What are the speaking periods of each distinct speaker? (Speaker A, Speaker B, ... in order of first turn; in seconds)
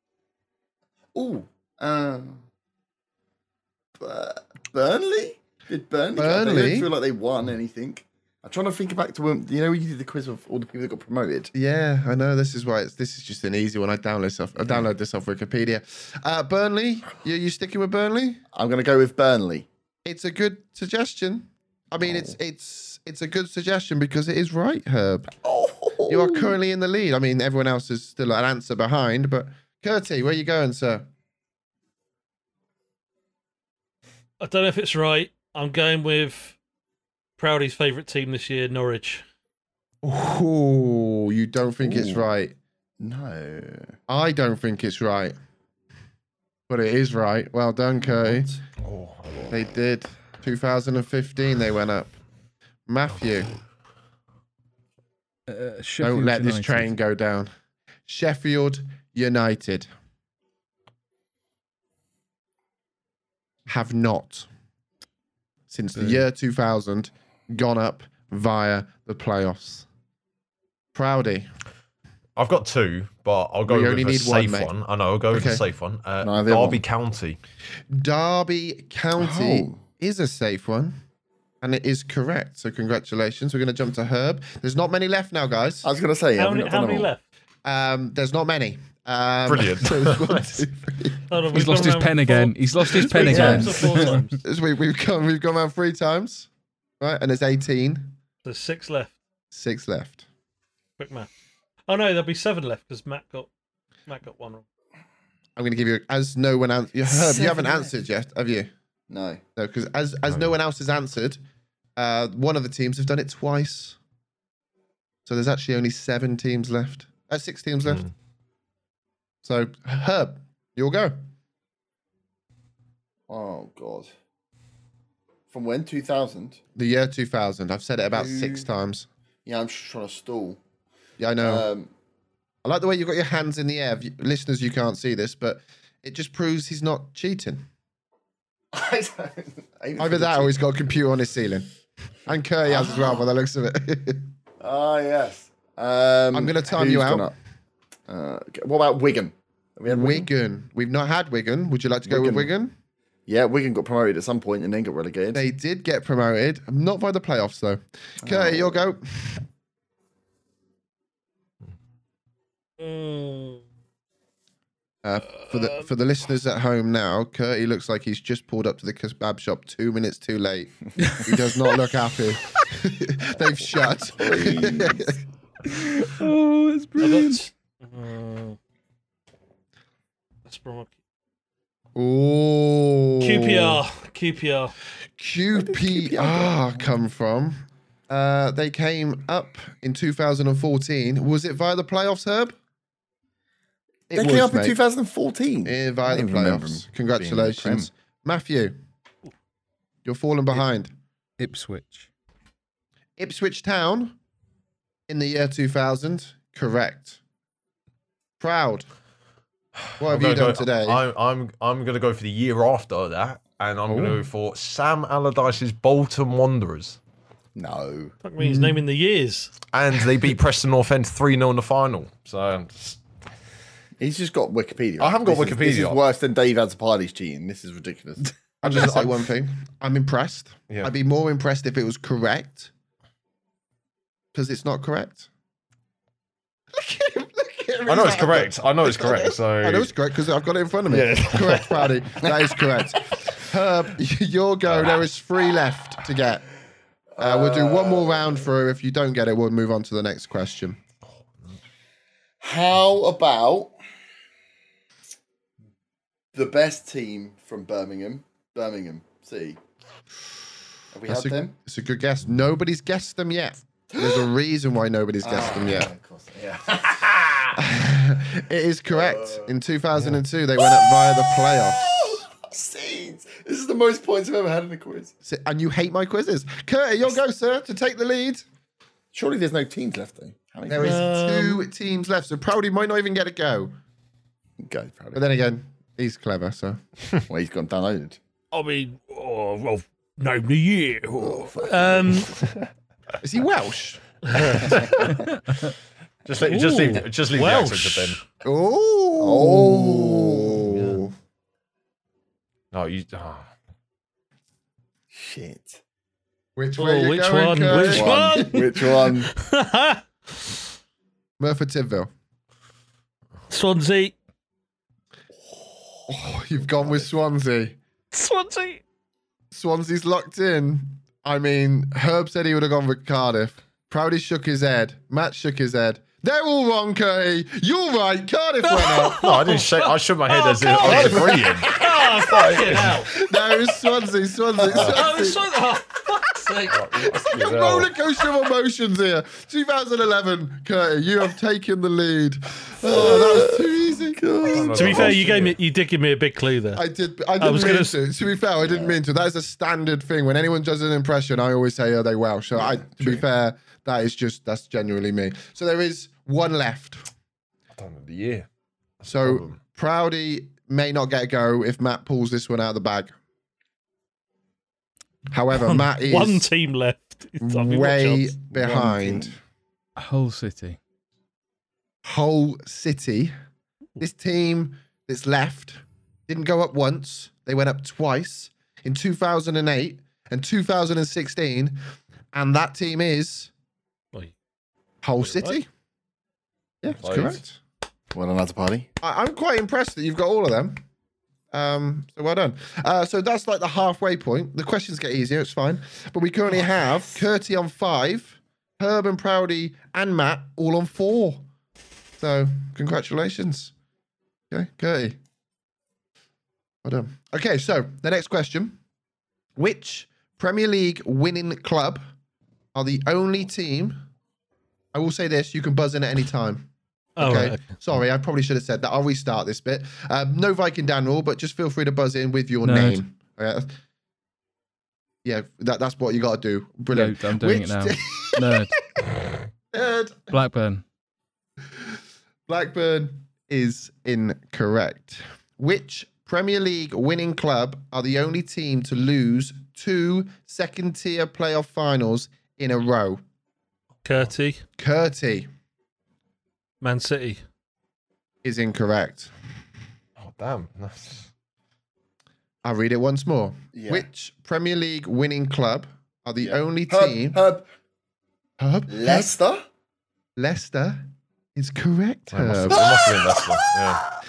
Speaker A: 1.1-2.4, 4.0-11.5, 18.5-19.7, 22.0-22.3, 25.4-26.5, 41.8-42.2, 43.0-44.0, 48.2-48.6, 76.2-76.8, 79.2-79.8, 85.8-87.1, 93.2-93.8, 107.0-107.9, 109.1-109.4, 123.3-124.1, 125.5-126.6, 128.1-128.7, 129.4-130.6, 131.4-131.9, 138.7-140.6, 142.7-143.2, 144.6-147.3, 148.1-150.3, 152.1-152.5, 153.3-155.4, 158.2-158.8, 173.5-175.1, 185.6-186.9, 194.1-197.9, 217.5-218.2, 224.0-228.4, 247.1-248.4, 252.4-253.7, 256.3-259.6, 260.9-261.5, 263.9-264.3, 265.2-267.6, 268.9-269.5, 270.6-275.1, 279.1-281.1, 284.6-285.2, 287.3-288.2, 291.2-292.6, 299.2-300.9, 305.1-305.8, 307.7-309.3, 315.4-317.1, 334.6-335.0, 342.8-345.2, 348.6-348.9, 352.6-353.2, 368.5-369.3, 388.1-388.9, 453.7-454.1, 456.9-457.6, 458.9-459.6, 462.7-464.2
Speaker B: 6.2-6.9, 11.5-18.4, 20.0-25.3, 26.1-31.1, 40.0-42.5, 44.1-45.3, 46.7-48.5, 49.5-52.1, 52.9-53.5, 56.0-57.5, 58.0-59.9, 63.7-64.5, 65.7-69.9, 70.9-71.5, 73.7-74.7, 75.3-75.6, 77.9-81.0, 81.6-85.9, 87.6-91.3, 93.2-93.8, 94.4-96.5, 97.0-98.2, 99.5-100.2, 105.5-108.7, 109.5-111.4, 112.0-114.0, 115.2-118.0, 119.4-121.2, 126.8-129.1, 131.2-131.7, 132.6-137.6, 140.0-141.7, 142.2-144.3, 146.3-147.3, 149.9-152.7, 155.3-159.4, 165.0-175.2, 181.9-183.8, 185.2-192.5, 194.1-194.8, 195.6-198.7, 200.0-200.9, 203.2-204.2, 205.1-207.2, 208.4-208.9, 210.0-211.0, 213.9-214.2, 218.4-218.8, 228.6-232.7, 234.3-235.3, 236.7-246.4, 247.2-250.8, 261.1-265.9, 267.5-272.2, 275.2-278.4, 280.7-283.7, 285.1-286.8, 293.2-294.0, 298.4-301.1, 306.6-308.5, 311.4-312.1, 316.1-317.8, 319.5-329.3, 333.1-335.4, 336.9-344.9, 346.7-357.1, 359.1-363.1, 365.3-366.5, 367.4-369.4, 372.0-373.3, 374.0-381.8, 382.3-383.5, 385.0-385.7, 386.8-387.6, 389.0-390.8, 391.5-401.4, 402.2-403.7, 404.5-405.2, 406.8-408.8, 409.6-412.0, 412.7-414.0, 414.9-416.7, 417.2-423.7, 425.2-428.6, 429.7-430.4, 432.5-443.2, 444.8-445.5, 448.4-449.3, 452.6-457.4, 458.6-459.3, 460.4-462.9
Speaker C: 34.4-36.6, 37.4-39.2, 86.3-87.2, 91.3-94.4, 98.4-99.2, 101.0-101.3, 101.9-103.5, 104.1-104.6, 162.8-163.6, 165.4-165.8, 177.0-178.6, 180.4-180.9, 183.2-184.7, 218.2-219.5, 280.8-281.6, 288.5-292.3, 294.3-294.6, 296.4-298.2, 306.8-310.5, 313.5-314.1, 318.1-318.8, 328.6-333.8, 334.7-337.3, 344.7-346.8, 347.4-347.9, 365.5-368.3, 385.2-385.6, 417.2-417.6, 444.0-444.6, 446.8-447.4
Speaker D: 48.8-49.5, 72.4-77.4, 89.5-90.6, 117.9-118.1, 209.9-217.0, 219.7-223.0, 225.0-226.0, 237.8-239.9, 240.9-242.0, 244.7-245.0, 294.3-295.2, 296.2-298.2, 302.7-303.5, 329.2-333.0, 336.7-337.9, 344.4-345.6, 357.7-358.5, 359.0-359.6, 386.9-387.4, 450.2-451.3, 462.3-464.0
Speaker E: 55.5-56.9, 91.5-94.3, 175.7-177.4, 201.4-202.1, 370.0-370.8, 422.6-423.0, 426.9-428.8, 430.3-430.8